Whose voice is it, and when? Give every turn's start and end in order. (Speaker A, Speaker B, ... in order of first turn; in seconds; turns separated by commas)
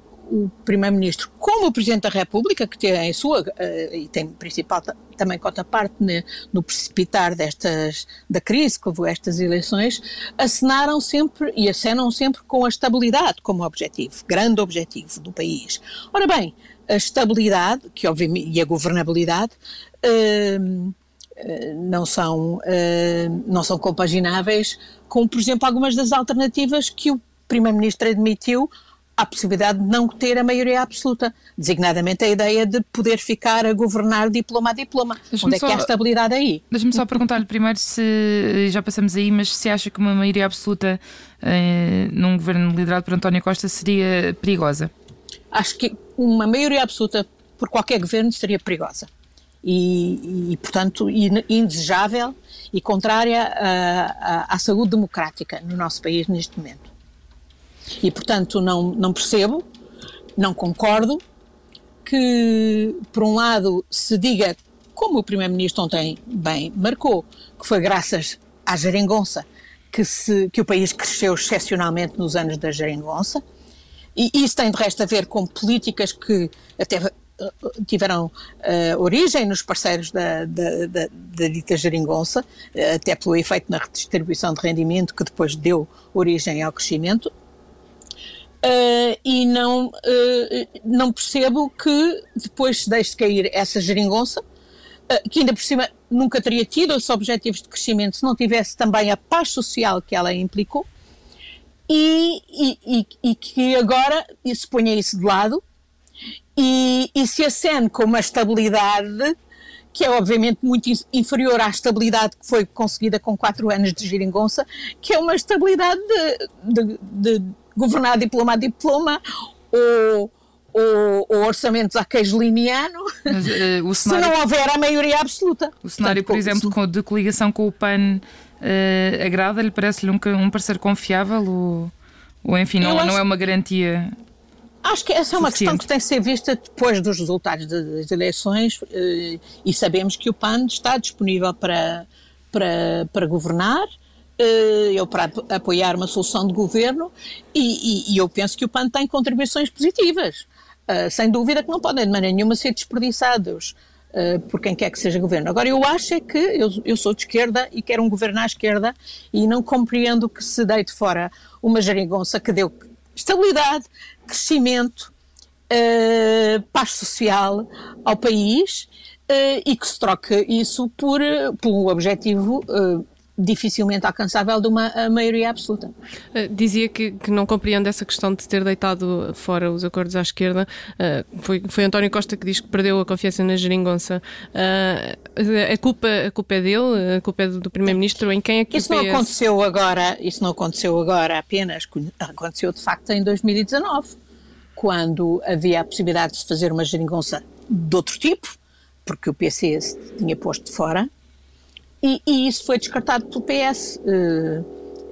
Speaker A: 0.3-36.6, Speaker B: 35.3-35.9, Speaker B: 36.7-44.9, Speaker A: 45.5-49.1, Speaker A: 49.6-56.9, Speaker A: 58.0-59.6, Speaker A: 60.4-61.2, Speaker A: 62.0-73.4, Speaker A: 74.2-87.3, Speaker A: 88.6-94.4, Speaker A: 95.1-100.8, Speaker A: 101.9-105.6, Speaker A: 106.6-109.3, Speaker A: 109.9-123.2, Speaker B: 123.3-124.3, Speaker A: 124.0-126.7, Speaker B: 125.8-131.9, Speaker B: 132.4-134.1, Speaker A: 132.8-133.2, Speaker A: 134.8-165.1, Speaker B: 135.4-135.8, Speaker A: 165.7-175.9, Speaker C: 176.3-189.3, Speaker A: 188.7-194.1, Speaker A: 194.8-198.5, Speaker A: 199.1-201.1, Speaker A: 202.0-204.7